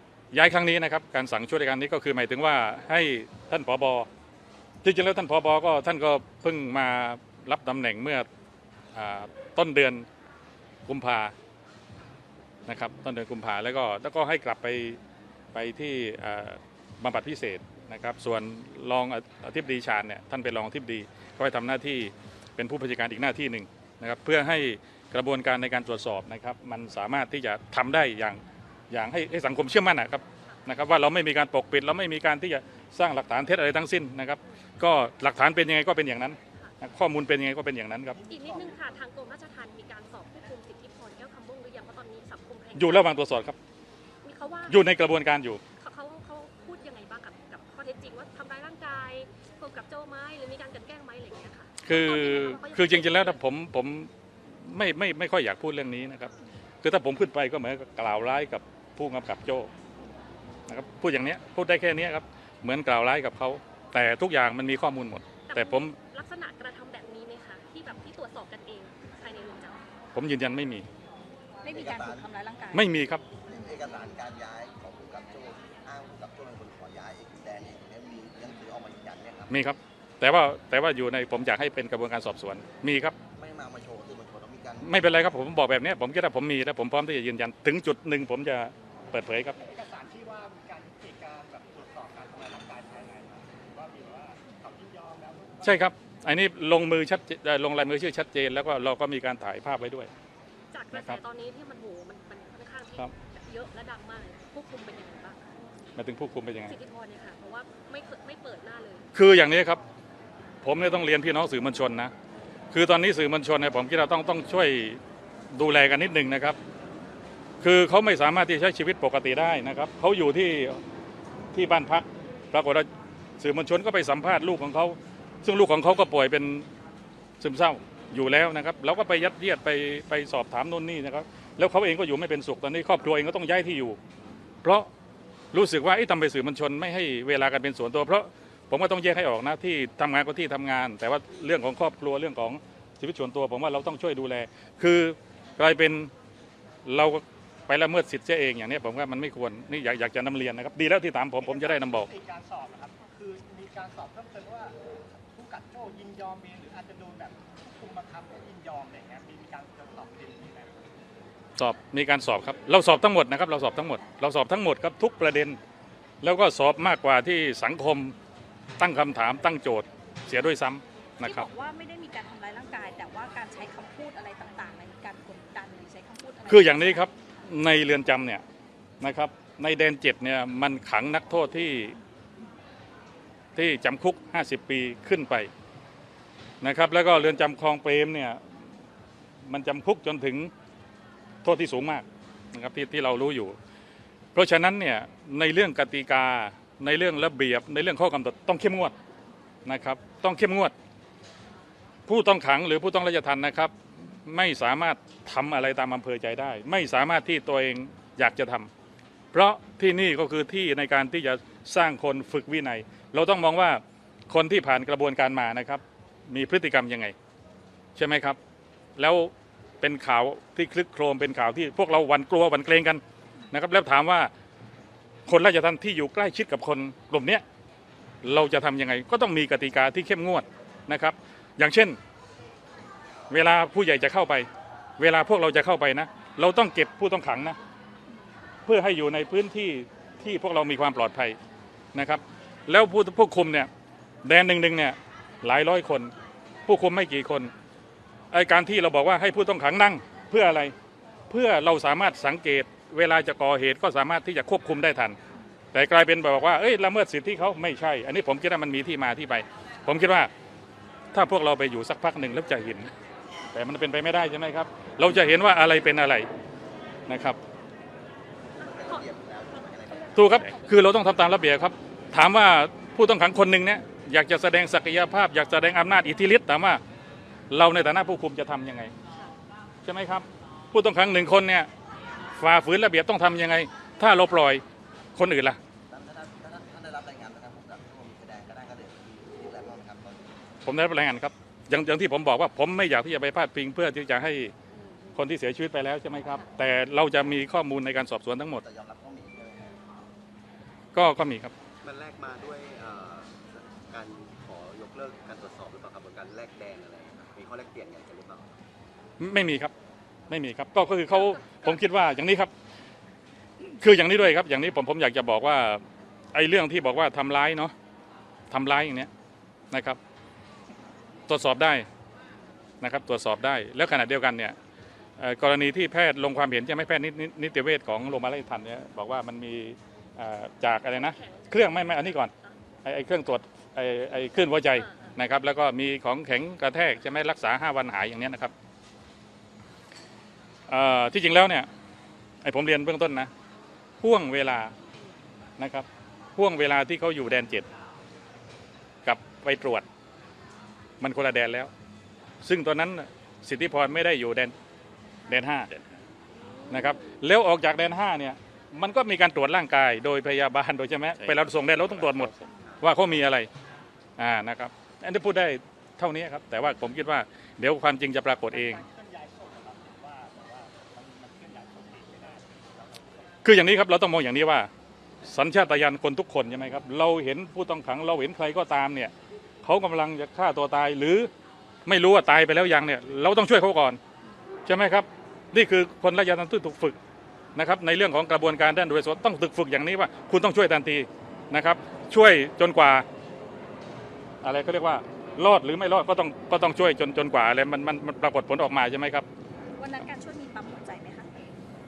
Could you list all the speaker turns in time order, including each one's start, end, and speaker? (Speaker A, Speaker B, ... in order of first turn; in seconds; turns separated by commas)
Speaker A: 0.3-4.1, Speaker A: 4.8-8.3, Speaker A: 8.9-10.1, Speaker A: 10.9-11.3, Speaker A: 12.7-15.0, Speaker A: 15.5-38.2, Speaker B: 36.5-36.8, Speaker C: 38.1-39.0, Speaker B: 38.2-43.2, Speaker A: 42.8-43.6, Speaker B: 44.2-44.9, Speaker A: 44.7-45.6, Speaker B: 45.8-53.4, Speaker A: 51.8-54.1, Speaker A: 54.6-59.7, Speaker A: 60.7-66.0, Speaker B: 65.5-69.9, Speaker A: 70.1-70.8, Speaker D: 71.6-72.9, Speaker E: 71.7-72.2, Speaker A: 72.7-73.2, Speaker E: 73.5-79.5, Speaker A: 79.5-83.2, Speaker E: 83.3-85.0, Speaker A: 84.8-89.5, Speaker C: 89.5-95.9, Speaker A: 95.6-100.1, Speaker B: 100.7-105.6, Speaker A: 100.9-101.2, Speaker A: 106.0-106.7, Speaker B: 106.6-109.1, Speaker A: 109.1-109.8, Speaker A: 110.6-112.1, Speaker A: 112.7-115.0, Speaker A: 115.5-116.6, Speaker A: 117.6-120.8, Speaker A: 121.5-122.9, Speaker A: 123.4-126.7, Speaker A: 127.4-134.0, Speaker A: 134.6-134.9, Speaker A: 135.5-146.1, Speaker A: 146.8-152.1, Speaker C: 151.4-160.9, Speaker A: 161.6-165.6, Speaker A: 166.2-168.1, Speaker A: 168.8-171.5, Speaker D: 171.2-177.1, Speaker A: 176.5-178.4, Speaker A: 179.0-182.0, Speaker A: 183.6-185.5, Speaker A: 186.6-188.4, Speaker A: 189.4-190.5, Speaker A: 191.4-193.6, Speaker A: 194.3-198.9, Speaker A: 199.6-200.7, Speaker A: 202.1-208.7, Speaker A: 209.3-217.1, Speaker A: 217.9-218.4, Speaker A: 219.0-224.3, Speaker A: 225.3-227.4, Speaker A: 228.2-232.0, Speaker A: 233.3-237.6, Speaker A: 238.7-241.4, Speaker A: 241.9-243.7, Speaker A: 244.2-246.1, Speaker A: 246.7-247.5, Speaker A: 248.3-250.7, Speaker A: 251.3-255.2, Speaker A: 255.7-260.3, Speaker A: 261.1-262.9, Speaker A: 263.5-266.3, Speaker A: 267.1-267.4, Speaker E: 268.6-270.3, Speaker B: 268.6-270.8, Speaker A: 270.1-276.8, Speaker A: 277.5-278.9, Speaker A: 279.8-281.7, Speaker A: 282.4-284.6, Speaker A: 285.1-285.6, Speaker E: 285.9-290.4, Speaker A: 290.6-294.5, Speaker B: 294.7-295.2, Speaker A: 295.1-298.6, Speaker E: 298.6-299.8, Speaker A: 300.9-301.5, Speaker F: 301.8-308.5, Speaker A: 309.2-309.7, Speaker A: 310.3-312.5, Speaker B: 311.1-311.8, Speaker A: 313.6-317.7, Speaker A: 318.5-319.1, Speaker A: 319.7-320.0, Speaker A: 321.3-321.9, Speaker A: 322.8-324.6, Speaker A: 325.2-332.3, Speaker B: 330.9-332.6, Speaker A: 332.8-338.5, Speaker B: 334.7-335.2, Speaker A: 340.7-341.7, Speaker A: 342.4-343.3, Speaker A: 344.0-344.7, Speaker A: 345.6-347.7, Speaker A: 349.0-349.9, Speaker A: 351.0-351.7, Speaker A: 352.4-354.5, Speaker A: 355.2-355.7, Speaker B: 356.4-357.0, Speaker A: 356.7-363.5, Speaker A: 364.2-368.8, Speaker C: 368.5-373.4, Speaker A: 373.4-374.7, Speaker A: 375.2-379.1, Speaker A: 379.6-381.3, Speaker A: 381.9-384.0, Speaker A: 384.6-387.0, Speaker A: 387.5-393.1, Speaker A: 394.4-399.2, Speaker D: 399.8-401.5